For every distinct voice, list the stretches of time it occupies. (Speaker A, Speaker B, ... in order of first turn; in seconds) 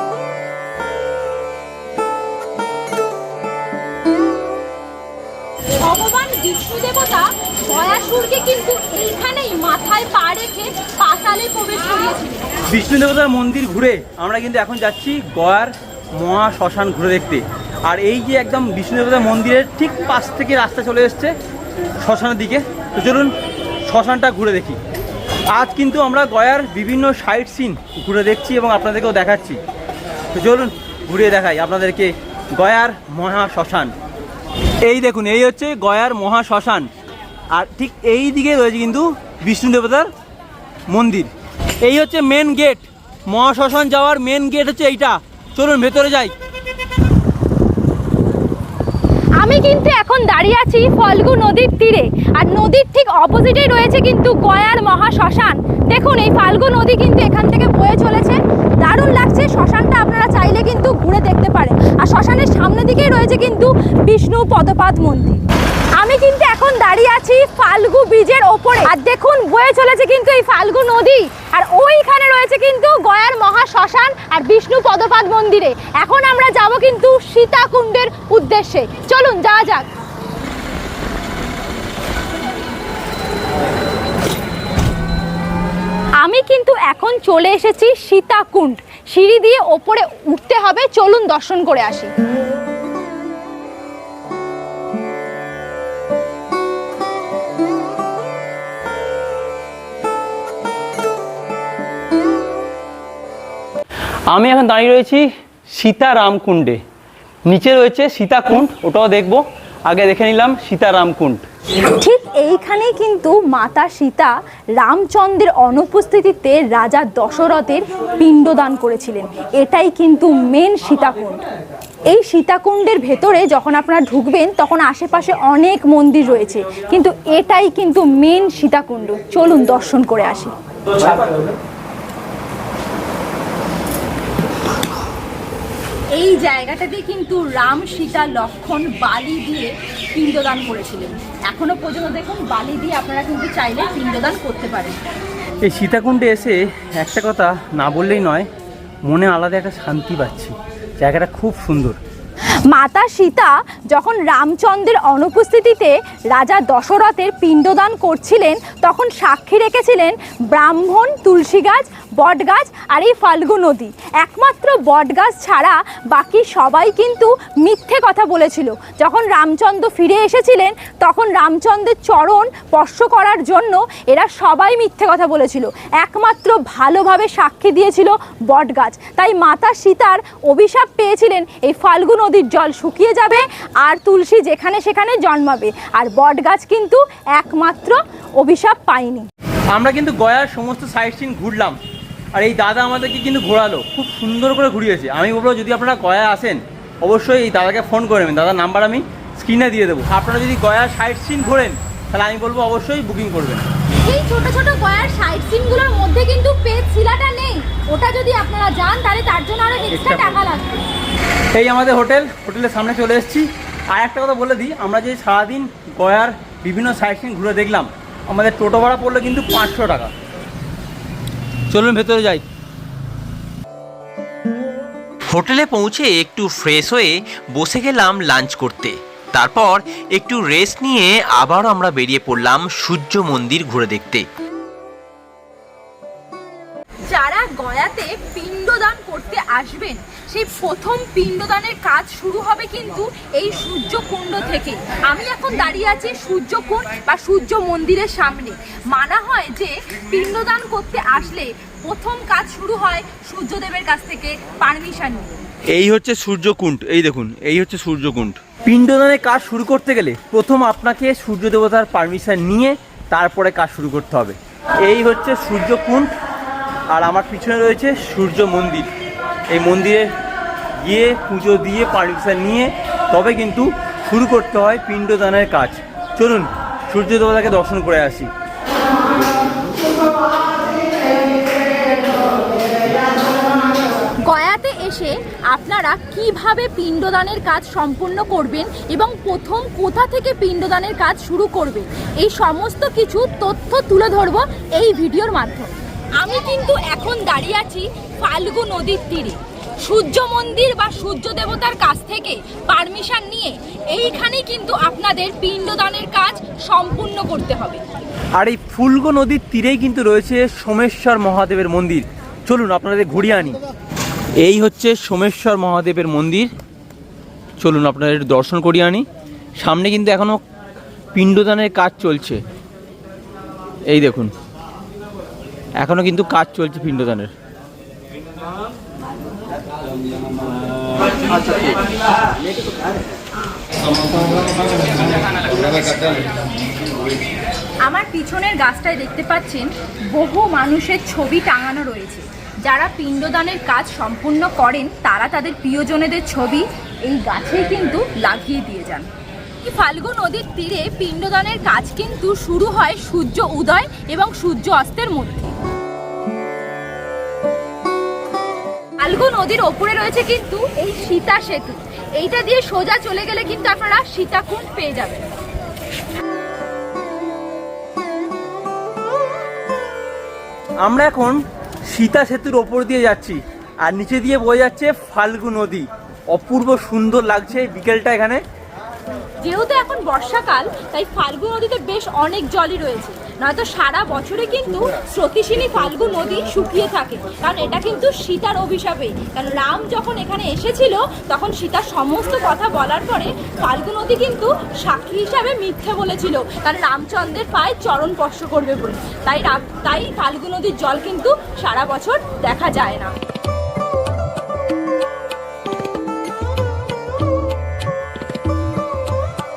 Speaker A: 5.8-12.5, 49.4-65.4, 66.0-79.9, 86.2-92.1, 111.9-121.4, 122.1-130.5, 136.1-145.0, 152.7-189.3, 204.0-210.8, 237.1-255.3, 284.3-307.8, 337.9-349.1, 349.6-355.5, 359.0-365.3, 379.4-403.1
Speaker B: 12.7-21.3, 22.0-23.3, 23.9-24.8, 25.5-29.6, 30.3-33.9, 34.8-36.9, 37.5-40.1, 40.9-41.3, 41.8-46.3, 104.3-106.8, 107.5-111.5, 145.6-148.5, 149.1-152.0, 189.7-191.8, 192.3-203.7, 209.9-210.4, 211.5-220.1, 221.7-222.4, 255.7-266.1, 266.9-268.9, 269.5-270.1, 270.8-278.3, 308.4-313.6, 314.4-316.5, 317.6-319.0, 319.6-320.4, 321.1-322.4, 323.9-324.3, 325.8-327.3, 331.3-331.8, 370.8-371.4, 371.9-378.4
Speaker C: 225.3-234.2